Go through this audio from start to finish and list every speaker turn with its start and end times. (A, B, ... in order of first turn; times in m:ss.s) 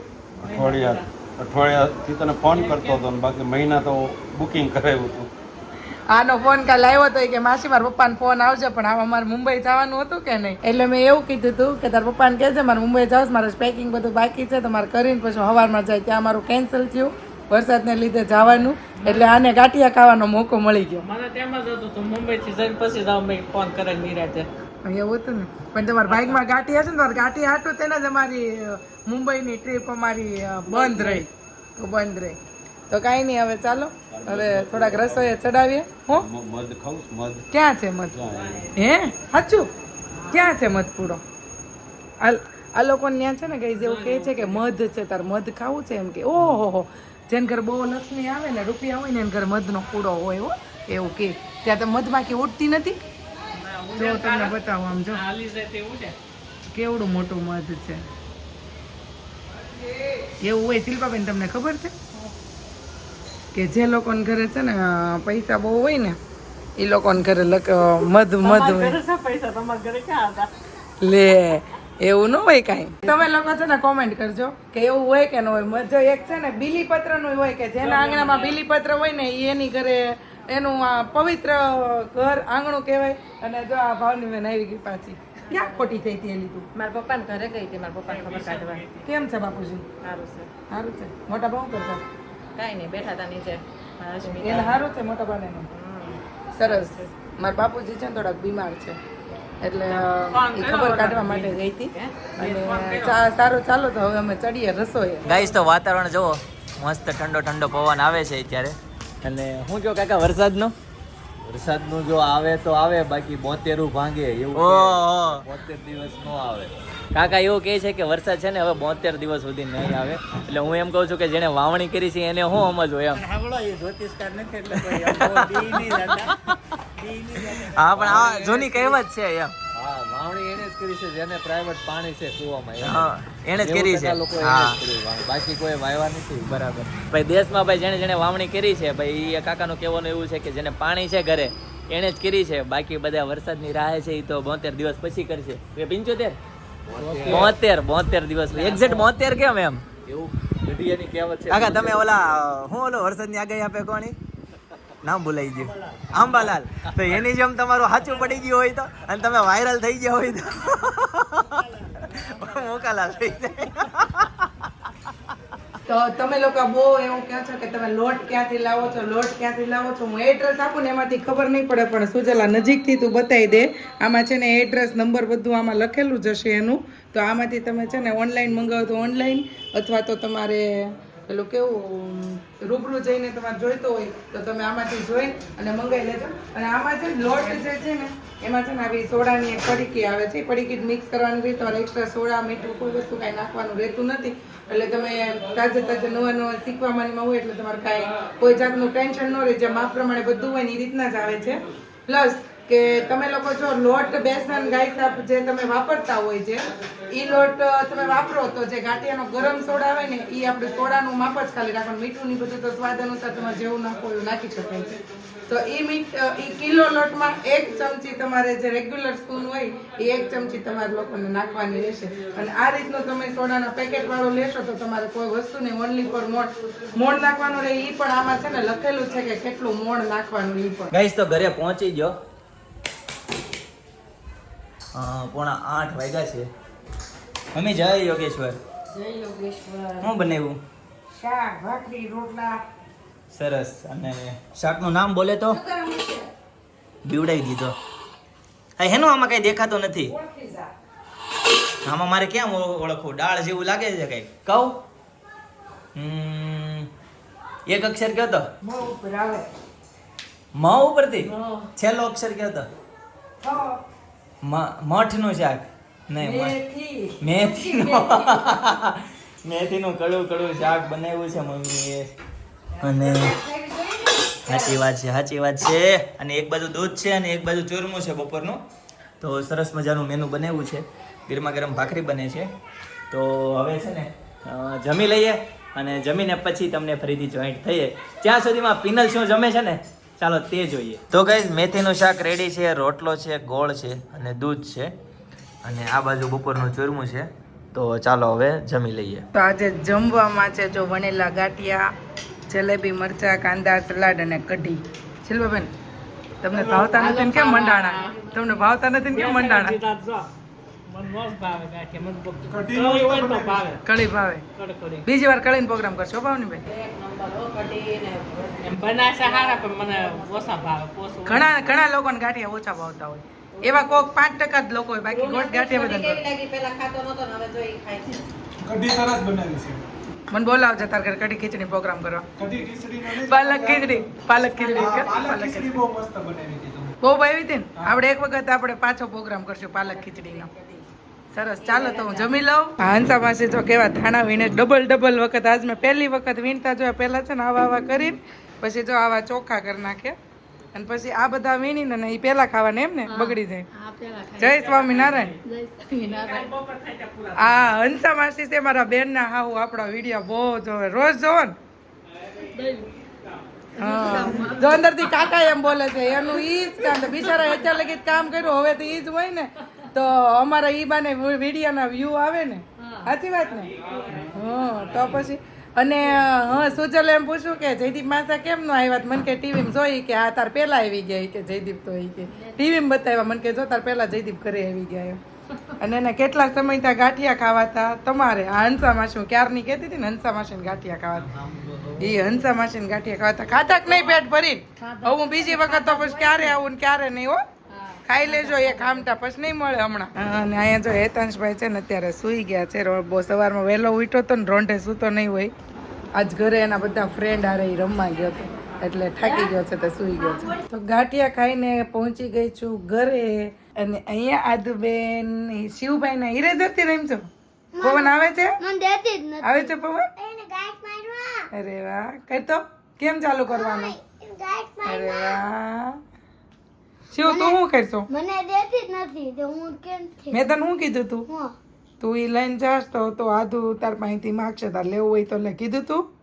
0:00.4-0:05.3 A
0:00.4-0:01.0 B
0:02.5-0:03.0 B
0:06.1-0:21.0 C
0:18.4-0:19.3 B
0:21.0-0:24.5 B
0:24.8-0:32.4 C
0:26.1-0:26.4 B
0:30.7-0:31.2 B
0:32.9-0:36.2 C
0:34.1-0:35.5 A
0:36.1-0:37.4 A
0:37.5-0:38.2 C
0:38.1-0:38.7 A
0:38.3-0:38.7 B
0:38.7-0:39.7 C
0:40.3-0:41.2 C
0:42.2-0:53.0 C
0:43.8-0:44.6 B
0:53.5-0:54.6 B
0:53.9-0:55.2 C
0:55.1-0:56.1 B
0:56.7-0:58.0 C
1:00.4-1:01.9 C
1:03.5-1:06.2 C
1:06.8-1:09.0 C
1:08.4-1:10.5 B
1:11.0-1:26.6 C
1:17.8-1:18.6 B
1:25.5-1:26.0 D
1:26.7-1:28.8 D
1:28.1-1:29.0 B
1:29.0-1:29.9 C
1:30.0-1:30.5 D
1:30.7-1:32.0 C
1:32.6-1:34.8 D
1:34.2-1:35.7 C
1:35.7-1:37.0 D
1:36.5-1:39.0 C
1:39.6-1:45.3 C
1:39.9-1:41.6 B
1:42.4-1:43.2 B
1:45.2-1:50.7 E
1:51.4-1:56.7 F
1:54.5-1:55.4 E
1:57.1-2:03.2 E
2:03.2-2:06.4 F
2:04.7-2:05.8 E
2:07.0-2:09.0 F
2:07.6-2:09.5 E
2:09.7-2:16.6 F
2:12.8-2:14.8 E
2:16.5-2:26.4 E
2:26.9-2:27.5 A
2:26.9-2:27.6 F
2:27.3-2:29.8 E
2:28.5-2:29.1 F
2:30.0-2:32.2 F
2:31.5-2:34.2 E
2:35.0-2:44.5 E
2:35.6-2:37.2 F
2:45.9-3:34.9 C
3:35.5-3:50.9 C
3:50.9-3:52.2 E
3:54.9-3:56.5 E
3:57.5-3:58.6 E
3:58.9-4:00.1 G
4:00.0-4:00.6 E
4:01.1-4:02.6 G
4:03.3-4:05.6 E
4:05.5-4:06.3 G
4:07.0-4:07.7 E
4:08.8-4:10.1 E
4:10.0-4:10.7 G
4:11.8-4:14.8 E
4:15.9-4:16.9 E
4:17.7-4:18.5 E
4:18.6-4:19.5 G
4:20.6-4:22.7 E
4:21.2-4:21.7 G
4:23.4-4:23.8 G
4:24.4-4:26.6 E
4:26.2-4:28.6 G
4:27.2-4:32.1 E
4:32.8-4:34.8 G
4:32.8-4:33.3 E
4:34.5-4:38.6 E
4:39.2-4:42.5 E
4:43.1-4:54.9 E
4:55.6-4:59.2 E
4:59.3-5:01.9 C
5:02.5-5:05.7 C
5:06.4-5:09.8 C
5:06.5-5:06.9 H
5:06.9-5:08.0 B
5:07.0-5:08.6 D
5:09.1-5:10.2 B
5:10.9-5:13.8 B
5:12.5-5:13.8 H
5:13.8-5:14.4 C
5:14.6-5:15.0 B
5:15.0-5:16.6 C
5:16.7-5:20.7 D
5:18.6-5:21.6 B
5:21.3-5:26.2 C
5:23.6-5:24.0 D
5:25.1-5:28.2 D
5:28.6-5:29.8 H
5:30.3-5:32.3 C
5:32.4-5:34.1 H
5:33.1-5:35.8 C
5:34.6-5:36.9 H
5:37.0-5:40.5 C
5:39.8-5:40.8 D
5:41.3-5:50.2 C
5:41.6-5:42.4 D
5:50.7-5:53.7 C
5:54.4-5:55.4 C
5:54.4-5:55.3 B
5:56.0-5:56.4 D
5:56.1-5:57.7 B
5:57.4-6:01.6 C
6:02.2-6:03.2 B
6:03.8-6:13.7 C
6:04.0-6:04.6 B
6:04.0-6:04.6 D
6:13.6-6:15.1 B
6:14.3-6:25.2 C
6:25.8-6:31.3 C
6:31.1-6:32.4 F
6:32.0-6:37.4 C
6:34.8-6:36.4 D
6:38.0-6:45.5 C
6:38.2-6:38.9 D
6:46.1-6:57.3 C
6:57.7-7:01.5 I
6:57.8-6:58.6 C
6:59.4-7:00.1 C
7:01.5-7:03.9 C
7:03.5-7:05.4 I
7:04.8-7:06.0 C
7:07.1-7:08.1 C
7:07.2-7:10.4 I
7:10.3-7:11.3 C
7:11.3-7:11.5 I
7:12.0-7:16.0 C